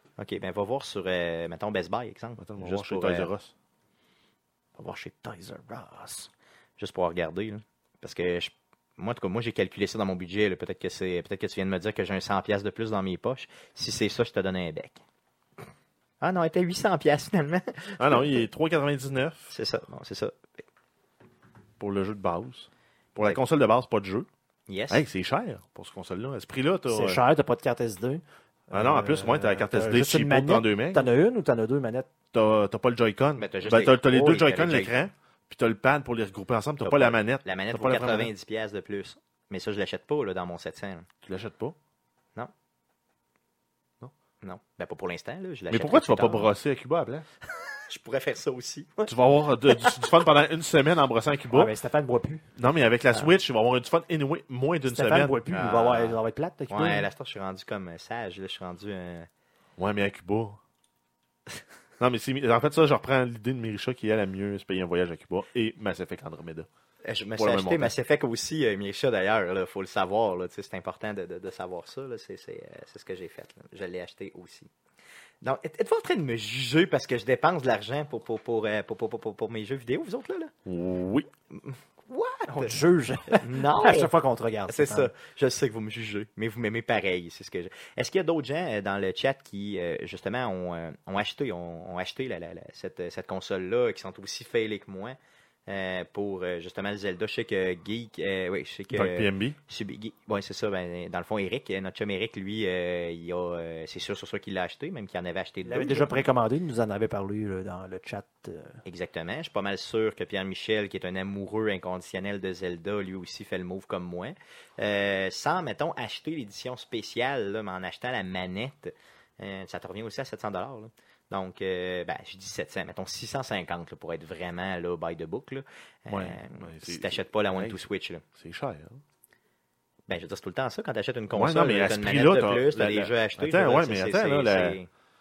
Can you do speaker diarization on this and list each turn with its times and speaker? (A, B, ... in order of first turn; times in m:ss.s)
0:00.2-0:03.3 A
0:02.4-0:03.5 B
0:04.8-0:06.3 C
0:06.8-0:15.0 A
0:16.2-0:18.4 A
0:18.0-0:19.5 B
0:19.5-0:20.4 A
0:21.8-0:24.3 B
0:24.7-0:25.0 A
0:24.9-0:27.2 B
0:26.9-0:32.1 C
0:28.7-0:31.1 B
0:32.3-0:38.3 B
0:33.4-0:35.0 A
0:36.8-0:41.1 A
0:41.2-0:41.8 B
0:44.4-0:46.5 A
0:45.7-0:47.3 B
0:47.6-0:49.2 A
0:49.1-0:51.7 B
0:49.7-0:50.1 A
0:51.5-0:52.5 C
0:52.6-0:55.4 B
0:54.9-0:57.1 C
0:55.5-0:56.2 A
0:56.7-0:59.3 A
0:59.8-1:00.6 B
1:02.0-1:06.7 B
1:07.0-1:14.7 A
1:07.4-1:07.9 B
1:15.4-1:20.5 A
1:20.7-1:21.3 B
1:21.5-1:22.8 A
1:22.5-1:25.1 C
1:23.3-1:24.1 A
1:24.7-1:46.2 A
1:38.9-1:39.6 B
1:45.6-1:48.8 C
1:48.9-2:08.2 A
2:06.1-2:09.0 B
2:10.1-2:14.9 A
2:11.3-2:14.8 B